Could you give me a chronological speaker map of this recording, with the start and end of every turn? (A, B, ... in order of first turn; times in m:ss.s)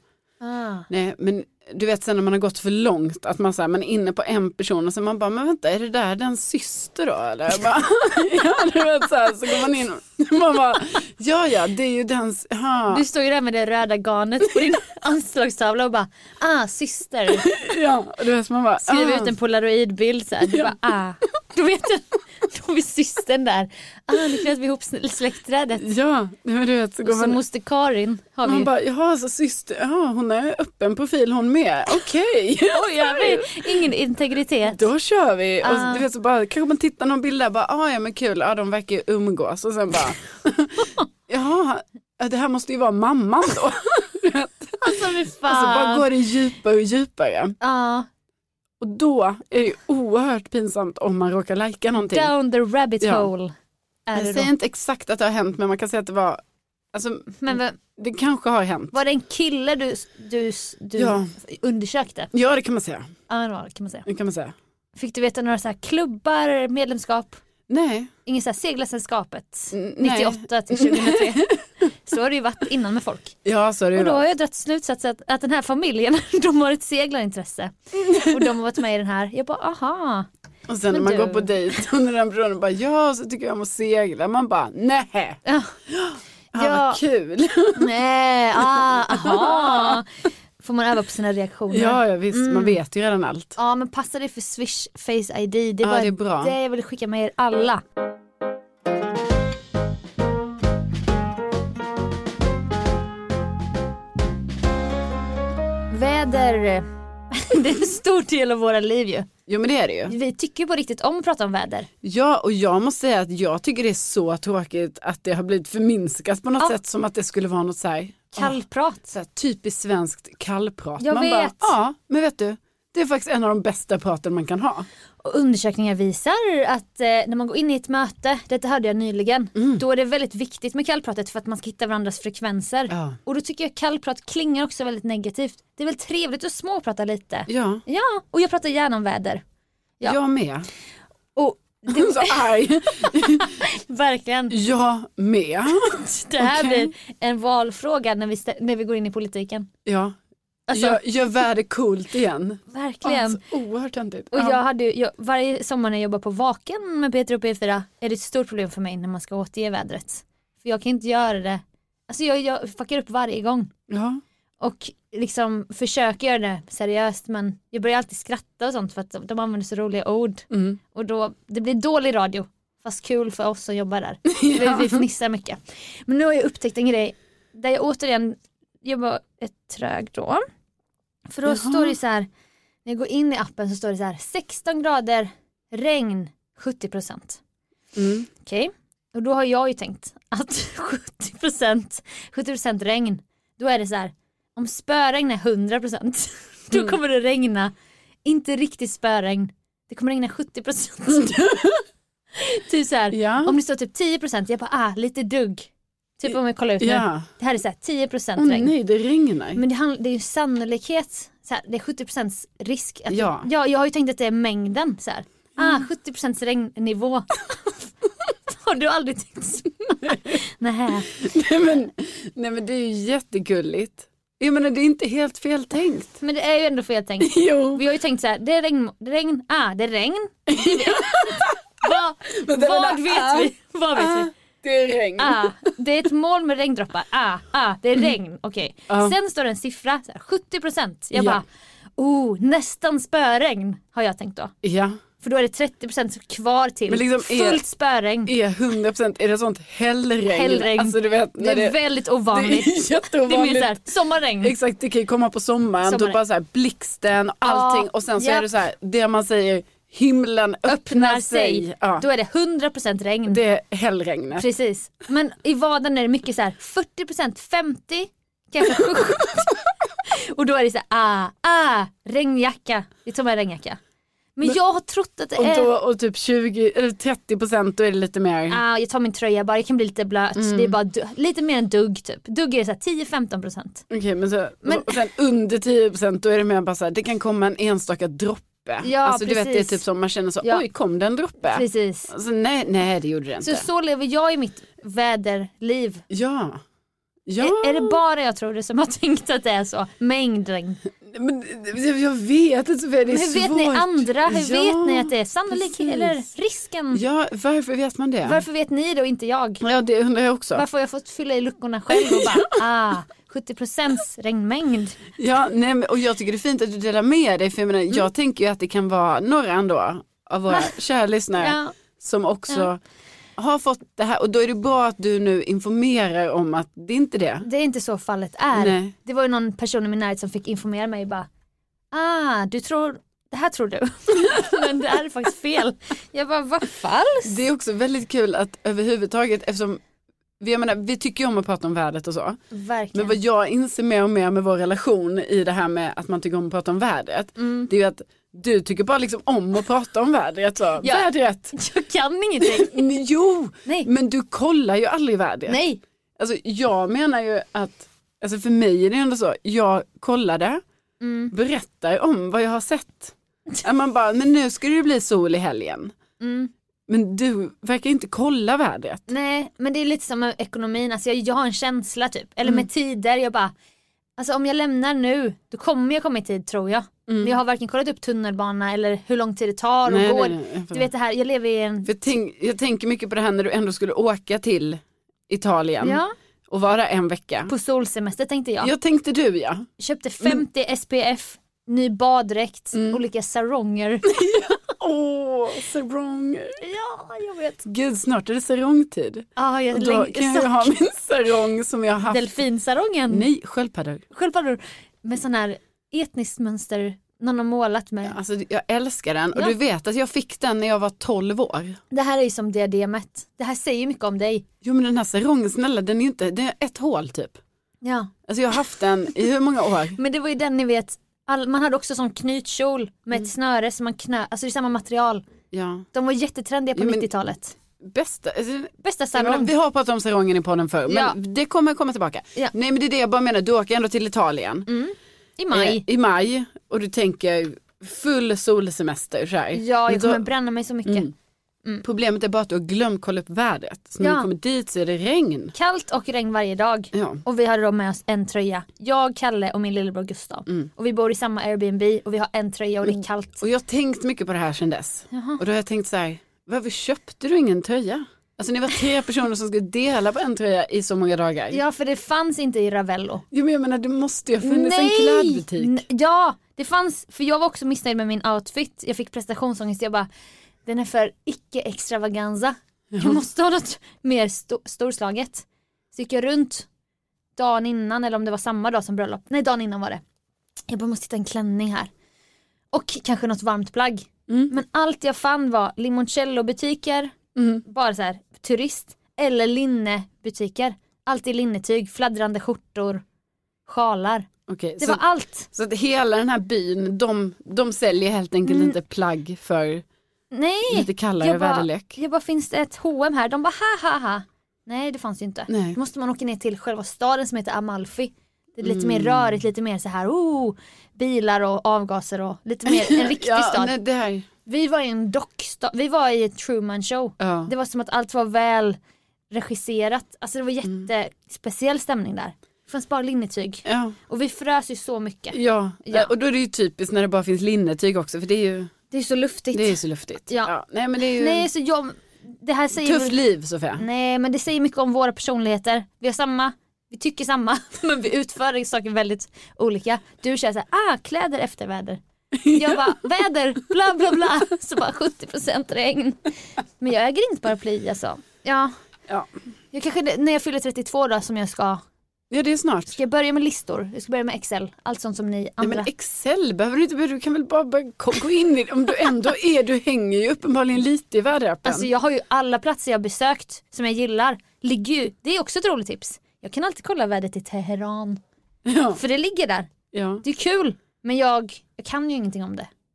0:00.4-0:00.9 A
0:00.9-0:13.0 B
0:12.9-0:17.5 A
0:17.3-0:19.3 B
0:18.8-0:25.9 A
0:20.5-0:20.8 B
0:25.8-0:27.4 B
0:27.0-0:28.7 A
0:28.4-0:33.9 B
0:32.7-0:34.8 A
0:34.6-0:47.6 B
0:35.6-0:36.1 A
0:44.8-0:46.0 A
0:47.6-0:48.1 A
0:48.8-0:52.3 B
0:52.0-0:53.5 A
0:53.0-0:53.3 B
0:54.1-0:54.5 A
0:54.2-0:56.4 B
0:56.9-0:59.0 B
0:57.4-0:57.8 A
0:58.9-1:02.3 A
1:01.0-1:01.3 B
1:02.3-1:03.1 B
1:03.3-1:04.1 A
1:04.1-1:04.6 B
1:05.0-1:07.4 A
1:07.7-1:08.1 B
1:08.3-1:13.4 A
1:09.7-1:11.6 B
1:13.4-1:14.2 B
1:14.0-1:20.3 A
1:18.0-1:18.4 B
1:20.7-1:27.9 B
1:20.9-1:21.5 A
1:25.4-1:25.8 A
1:26.5-1:27.0 A
1:27.8-1:30.1 A
1:28.6-1:30.0 B
1:30.6-1:32.8 A
1:31.7-1:33.6 B
1:33.6-1:37.8 A
1:35.8-1:36.6 B
1:45.9-1:49.3 A
1:49.5-1:50.2 B
1:50.1-1:51.9 A
1:52.0-1:58.6 B
1:58.3-1:59.1 A
1:59.1-2:04.9 B
2:01.0-2:01.8 A
2:05.2-2:19.4 A
2:09.6-2:09.8 B
2:12.9-2:13.2 B
2:17.5-2:17.8 B
2:20.0-2:20.7 B
2:21.4-2:22.5 A
2:21.9-2:23.6 B
2:23.3-2:24.6 A
2:24.5-2:26.9 B
2:25.8-2:29.7 A
2:29.9-2:30.2 B
2:30.7-2:31.0 A
2:30.7-2:34.6 B
2:32.7-2:33.4 A
2:34.3-2:43.7 A
2:43.9-2:44.2 B
2:44.6-3:00.4 A
2:50.5-2:50.8 B
2:54.3-2:55.0 B
3:01.3-3:02.3 A
3:01.5-3:02.0 B
3:02.8-3:07.4 A
3:08.0-3:08.3 B
3:08.4-3:17.7 A
3:16.7-3:17.0 B
3:18.2-3:21.7 A
3:21.2-3:21.8 B
3:22.3-3:25.7 A
3:23.1-3:23.6 B
3:26.2-3:28.7 A
3:26.3-3:27.3 B
3:28.4-3:29.6 B
3:29.6-3:37.9 A
3:33.1-3:33.5 B
3:35.6-3:35.8 B
3:38.5-3:41.1 A
3:40.0-3:40.4 B
3:41.1-3:46.2 B
3:46.2-3:54.3 A
3:47.2-3:47.8 B
3:50.5-3:55.4 B
3:55.2-4:01.4 A
3:58.9-3:59.2 B
4:01.2-4:01.4 B
4:02.0-4:04.5 A
4:04.6-4:05.0 B
4:05.2-4:08.3 A
4:06.9-4:07.6 B
4:08.2-4:11.8 B
4:10.3-4:14.6 A
4:12.3-4:13.8 B
4:14.4-4:22.0 B
4:15.8-4:16.2 A
4:17.4-4:18.5 A
4:20.7-4:23.4 A
4:23.3-4:24.4 B
4:24.4-4:33.8 A
4:34.4-4:35.7 A
4:35.4-4:38.6 B
4:38.5-4:43.8 A
4:40.4-4:40.8 B
4:43.9-4:53.7 B
4:44.6-4:45.0 A
4:48.8-4:49.8 A
4:51.5-4:52.1 A
4:53.4-4:56.0 A
4:56.1-4:56.6 B
4:57.3-4:58.0 B
4:57.4-5:00.8 A
5:01.0-5:06.2 B
5:03.1-5:07.0 A
5:06.9-5:08.4 B
5:08.2-5:09.6 A
5:09.6-5:10.6 B
5:10.6-5:15.0 A
5:11.9-5:12.6 B
5:15.2-5:22.8 B
5:21.4-5:21.7 A
5:23.4-5:27.5 B
5:27.4-5:31.3 A
5:28.5-5:28.9 B
5:31.9-5:37.4 A
5:37.2-5:39.8 B
5:40.4-5:42.4 B
5:42.5-5:43.2 A
5:42.9-5:51.6 B
5:47.4-5:47.7 A
5:50.8-5:52.9 A
5:52.4-5:55.6 B
5:55.5-5:55.8 A
5:56.2-6:00.6 B
6:01.0-6:01.3 A
6:01.3-6:05.9 B
6:06.2-6:06.5 A
6:06.9-6:09.1 B
6:09.1-6:13.5 A
6:14.2-6:22.2 A
6:17.1-6:17.3 B
6:19.9-6:20.9 B
6:21.8-6:27.5 B
6:25.8-6:26.1 A
6:27.5-6:28.7 A
6:28.6-6:29.7 B
6:29.8-6:34.1 A
6:32.7-6:33.0 B
6:34.0-6:36.6 B
6:36.6-6:37.7 A
6:37.6-6:42.2 B
6:39.4-6:40.9 A
6:42.1-6:43.3 A
6:43.1-6:44.0 B
6:44.1-6:48.2 A
6:48.0-6:51.8 B
6:51.9-6:54.4 A
6:54.6-6:57.4 B
6:57.8-6:58.1 A
6:58.3-7:00.0 B
7:00.0-7:05.3 A
7:05.5-7:05.9 B
7:05.9-7:07.6 A
7:06.8-7:07.1 B
7:07.8-7:14.7 B
7:08.8-7:09.5 A
7:10.9-7:11.2 A
7:14.7-7:15.8 A
7:15.5-7:20.2 B
7:19.5-7:21.1 A
7:20.9-7:21.1 B
7:21.8-7:25.5 B
7:24.0-7:24.3 A
7:25.5-7:33.4 A
7:26.9-7:27.2 B
7:33.4-7:41.6 B
7:35.1-7:35.4 A
7:41.5-7:43.2 A
7:43.3-7:45.8 B
7:44.4-7:50.1 A
7:50.7-7:56.7 A
7:52.9-7:53.2 B
7:57.4-8:00.0 A
8:00.7-8:01.9 A
8:02.7-8:13.0 A
8:07.4-8:07.6 B
8:13.7-8:14.3 A
8:14.5-8:19.8 B
8:14.8-8:15.5 A
8:18.5-8:18.8 A
8:20.3-8:33.7 A
8:20.7-8:22.0 B
8:25.5-8:25.8 B
8:28.6-8:29.4 B
8:32.7-8:34.3 B
8:34.5-8:38.8 A
8:37.2-8:37.5 B
8:39.3-8:46.1 A
8:43.6-8:44.0 B
8:45.3-8:48.7 B
8:48.9-8:50.5 A
8:49.5-8:51.5 B
8:51.1-8:53.2 A
8:52.8-8:53.8 B
8:53.8-9:08.7 A
9:02.3-9:03.0 B
9:09.7-9:11.8 A
9:12.3-9:13.0 B
9:12.9-9:15.9 A
9:15.6-9:21.9 B
9:21.6-9:28.2 A
9:28.6-9:29.0 B
9:28.9-9:29.7 A
9:29.9-9:30.2 B
9:30.2-9:32.7 A